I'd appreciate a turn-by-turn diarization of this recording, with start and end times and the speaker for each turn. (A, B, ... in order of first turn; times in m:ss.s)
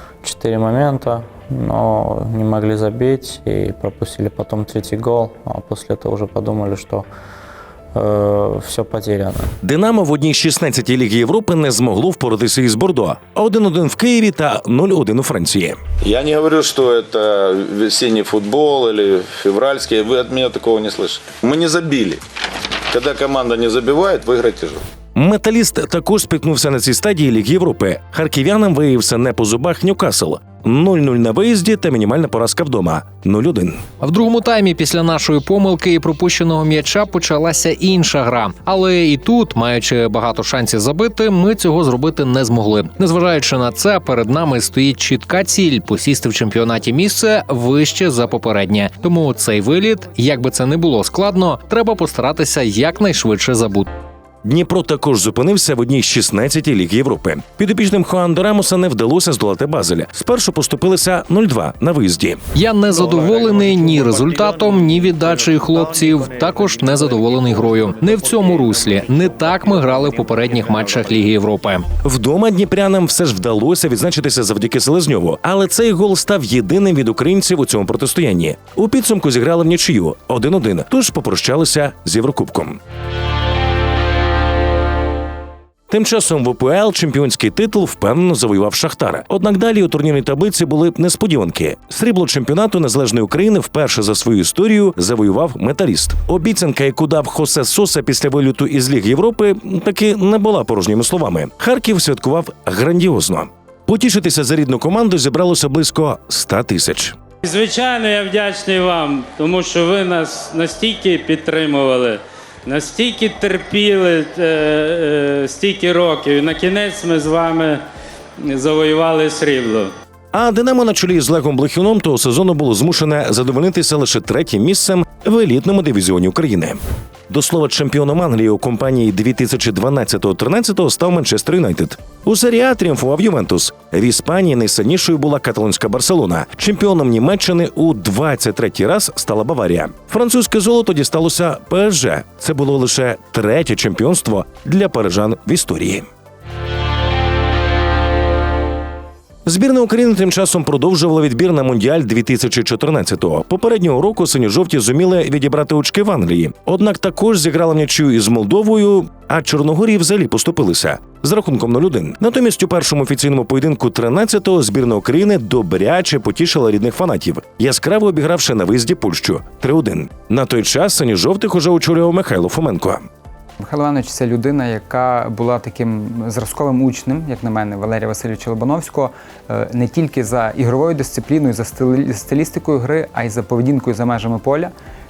0:00.2-0:07.0 A
0:07.9-0:09.5 A
0:09.6-0:15.8 B
0:16.0-0:22.2 C
0:22.9-0:24.8 C
0:25.1-0:33.8 B
0:34.0-0:53.9 D
0:54.4-1:02.4 B
1:02.5-1:11.8 D
1:12.0-1:22.8 B
1:25.9-1:47.2 B
1:47.4-1:57.8 E
1:58.5-1:59.9 E
2:00.3-2:26.1 B
2:29.4-2:53.0 B
2:53.6-3:04.7 F